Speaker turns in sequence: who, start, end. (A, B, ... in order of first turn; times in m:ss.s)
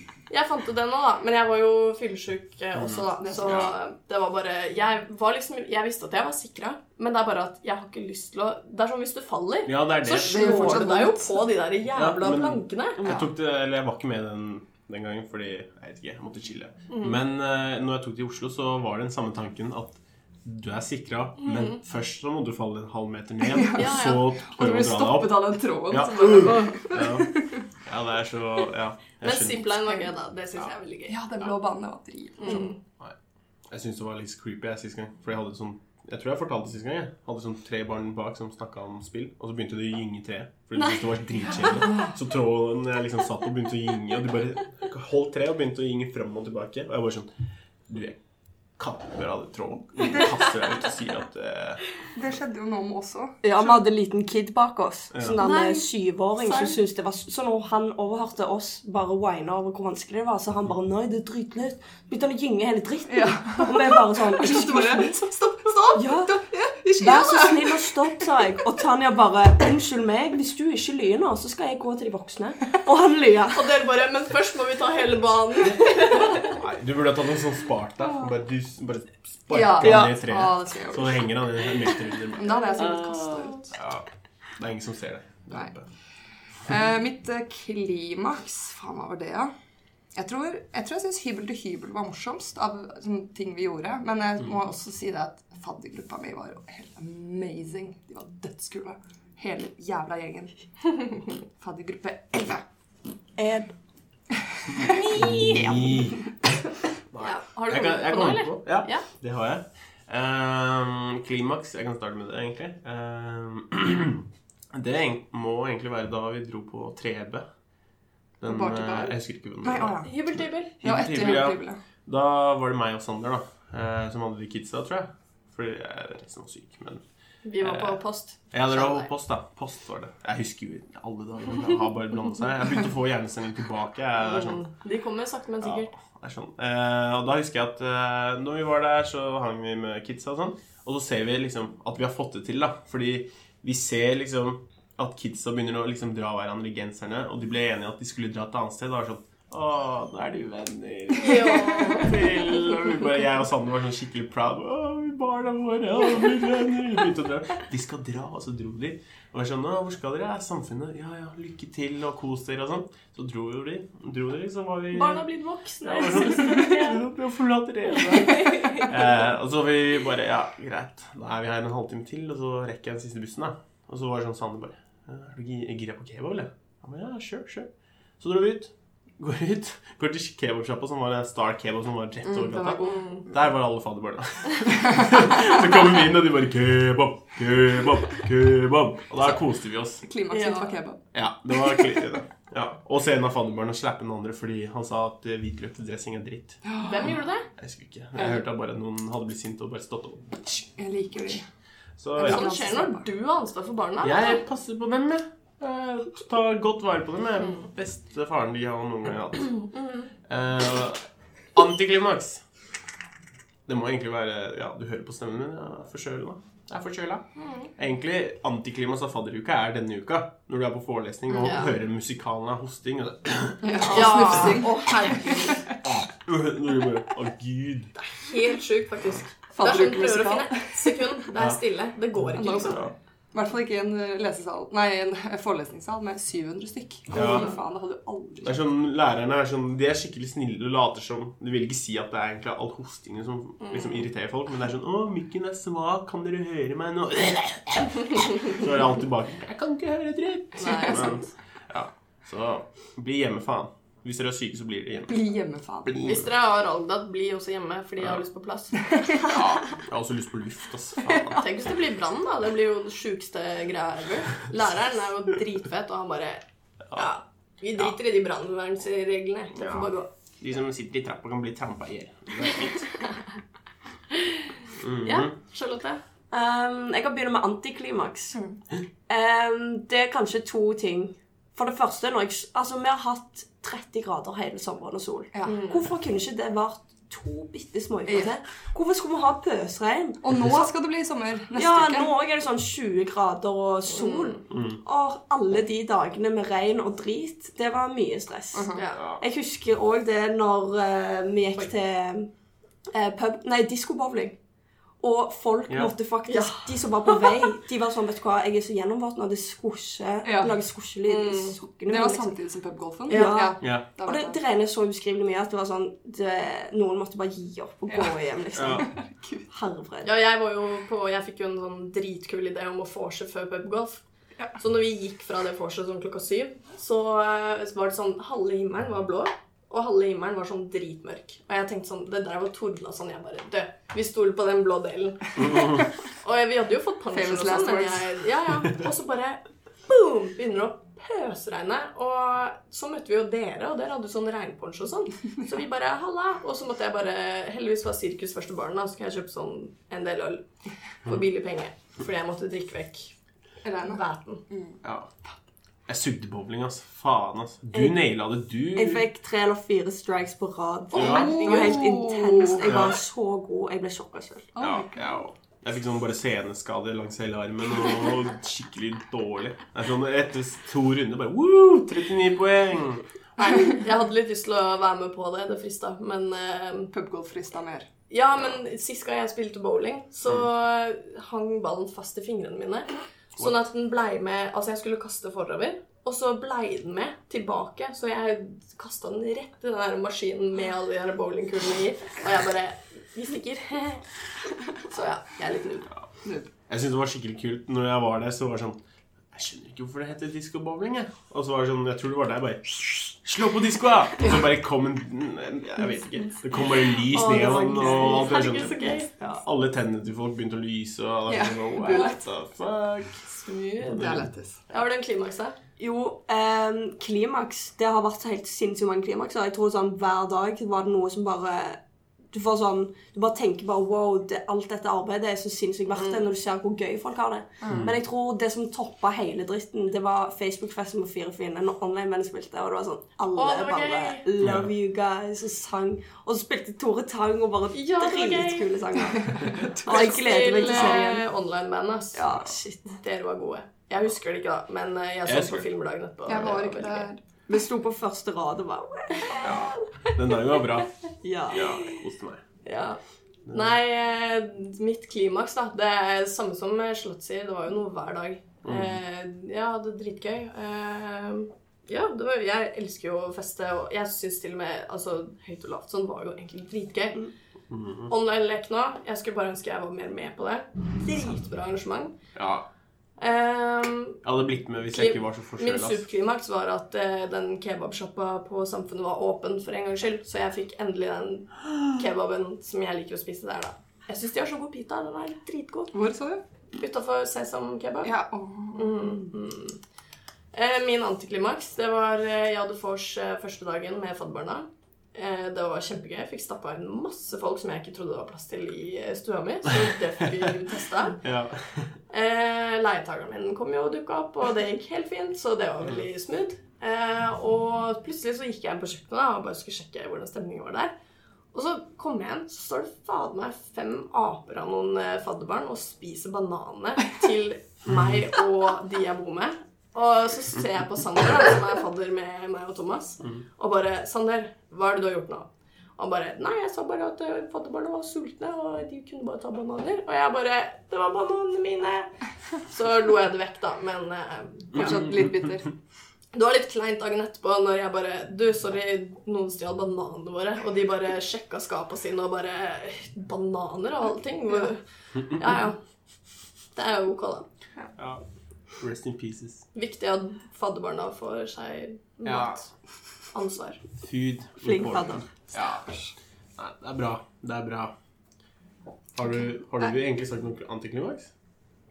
0:00.3-0:13.0 A
0:02.8-0:03.7 B
0:03.2-0:03.7 C
0:09.6-0:10.8 B
0:10.2-0:11.5 C
0:11.9-0:29.8 B
0:13.0-0:13.3 C
0:16.9-0:17.2 A
0:21.4-0:21.8 A
0:23.5-0:27.6 C
0:23.7-0:24.2 A
0:29.2-0:31.2 A
0:31.1-0:32.7 C
0:32.4-0:32.8 A
0:33.7-0:47.3 B
0:47.9-0:48.2 B
0:48.8-0:51.8 B
0:52.1-0:53.8 C
0:53.4-1:05.1 D
0:55.1-0:55.4 B
0:55.4-0:55.8 A
0:56.4-0:56.7 C
1:03.1-1:08.2 C
1:05.9-1:06.4 D
1:07.0-1:13.6 D
1:13.5-1:16.5 A
1:16.4-1:22.6 B
1:19.5-1:21.3 C
1:19.8-1:20.2 D
1:22.4-1:23.7 C
1:23.7-1:24.0 B
1:24.6-1:25.8 B
1:26.6-1:29.5 C
1:30.1-1:40.6 C
1:41.6-1:42.6 C
1:43.4-1:43.7 D
1:44.9-1:46.3 B
1:47.1-1:57.4 B
1:47.2-1:49.0 A
1:58.4-2:07.0 B
1:58.4-2:00.1 C
2:00.0-2:01.2 A
2:00.8-2:01.8 C
2:07.4-2:09.1 A
2:07.6-2:08.0 B
2:08.5-2:14.7 B
2:14.2-2:15.9 A
2:15.6-2:45.3 B
2:31.2-2:32.1 A
2:44.9-2:47.0 A
2:45.8-2:57.7 B
2:48.2-2:48.9 A
2:58.2-3:10.0 B
3:02.2-3:03.0 C
3:02.8-3:03.2 A
3:10.0-3:11.0 C
3:10.3-3:10.8 A
3:11.1-3:16.6 B
3:16.6-3:17.1 C
3:16.8-3:17.5 A
3:17.6-3:20.3 B
3:18.2-3:18.4 C
3:20.4-3:21.4 C
3:22.0-3:22.5 B
3:22.2-3:23.0 C
3:22.2-3:24.4 A
3:24.0-3:29.7 B
3:29.7-3:30.1 A
3:30.2-3:31.0 B
3:31.5-3:32.4 B
3:33.7-3:37.2 B
3:37.4-3:37.7 A
3:37.8-3:44.3 B
3:41.3-3:41.7 A
3:43.6-3:45.8 C
3:43.9-3:45.6 A
3:45.8-3:47.9 B
3:48.0-3:52.8 A
3:49.5-3:51.2 C
3:52.2-3:52.9 B
3:52.3-3:58.6 C
3:57.1-3:57.5 B
3:57.2-3:57.4 A
3:58.4-4:15.2 B
4:03.6-4:04.1 A
4:10.6-4:11.3 A
4:15.1-4:16.0 C
4:15.8-4:16.3 B
4:16.0-4:18.8 A
4:18.9-4:19.3 C
4:19.2-4:21.4 B
4:21.3-4:26.4 A
4:26.9-4:30.1 A
4:29.6-4:33.0 B
4:34.8-4:35.3 B
4:35.0-4:36.0 A
4:36.3-4:38.4 D
4:39.1-4:50.7 D
4:45.3-4:45.6 C
4:45.4-4:45.8 A
4:48.1-4:48.3 C
4:50.2-4:52.2 C
4:51.5-5:02.3 D
4:53.9-4:54.4 A
4:54.5-4:54.8 B
4:58.5-4:58.8 C
4:58.7-4:59.0 A
5:02.9-5:04.4 D
5:05.0-5:12.3 D
5:06.3-5:06.6 A
5:10.2-5:10.6 C
5:11.1-5:11.6 A
5:11.9-5:14.4 C
5:13.1-5:18.9 D
5:13.6-5:13.9 B
5:17.9-5:19.5 C
5:18.5-5:18.8 B
5:19.5-5:20.1 D
5:20.0-5:24.0 A
5:24.6-5:50.4 A
5:35.4-5:35.8 B
5:37.1-5:38.2 C
5:51.0-5:53.1 A
5:53.6-5:54.8 C
5:53.8-5:54.4 A
5:54.8-5:55.1 B
5:55.9-5:59.0 B
5:57.7-5:58.0 D
5:58.7-6:04.5 D
6:00.9-6:01.8 A
6:00.9-6:02.9 C
6:01.0-6:01.4 B
6:02.6-6:03.0 B
6:04.5-6:05.1 C
6:04.6-6:13.0 B
6:13.4-6:16.9 A
6:16.9-6:17.9 C
6:18.1-6:34.0 A
6:34.8-6:35.9 A
6:36.2-6:36.5 C
6:36.7-6:38.8 B
6:39.3-6:53.2 B
6:47.1-6:49.1 A
6:47.2-6:48.3 D
6:49.2-6:49.4 D
6:51.3-6:52.2 C
6:51.8-6:52.1 A
6:53.3-6:54.2 A
6:53.9-6:54.2 B
6:53.9-6:54.6 C
6:54.7-6:55.6 A
6:55.8-7:01.8 D
7:02.3-7:21.2 D
7:05.9-7:06.3 A
7:07.6-7:07.9 C
7:13.3-7:14.3 A
7:14.4-7:14.7 B
7:17.7-7:19.0 A
7:19.2-7:19.9 C
7:19.8-7:27.1 A
7:22.1-7:23.0 D
7:25.2-7:25.6 B
7:26.3-7:27.2 C
7:27.5-7:29.8 D
7:29.4-7:30.9 B
7:31.2-7:32.0 D
7:31.5-7:32.4 B
7:32.6-7:33.0 A
7:33.5-7:33.7 B
7:33.5-7:47.3 A
7:38.6-7:39.0 B
7:47.7-7:48.1 B
7:48.1-7:52.1 A
7:52.3-7:52.6 B
7:53.2-7:54.2 A
7:54.2-7:56.0 B
7:54.9-8:05.9 A
8:05.9-8:06.4 C
8:06.7-8:08.1 A
8:08.0-8:09.2 C
8:08.7-8:09.8 A
8:10.5-8:21.2 A
8:21.2-8:21.9 B
8:22.1-8:30.9 A
8:31.5-8:52.1 A
8:37.9-8:38.2 B
8:52.7-8:55.0 A
8:54.7-8:55.5 B
8:54.7-8:55.7 C
8:56.3-9:05.8 A
9:06.7-9:07.5 A
9:08.0-9:08.2 B
9:08.8-9:09.6 B
9:09.7-9:12.7 A
9:12.2-9:12.6 B
9:13.3-9:13.8 A
9:14.0-9:15.8 B
9:14.6-9:15.3 D
9:16.6-9:17.9 B
9:19.2-9:21.3 B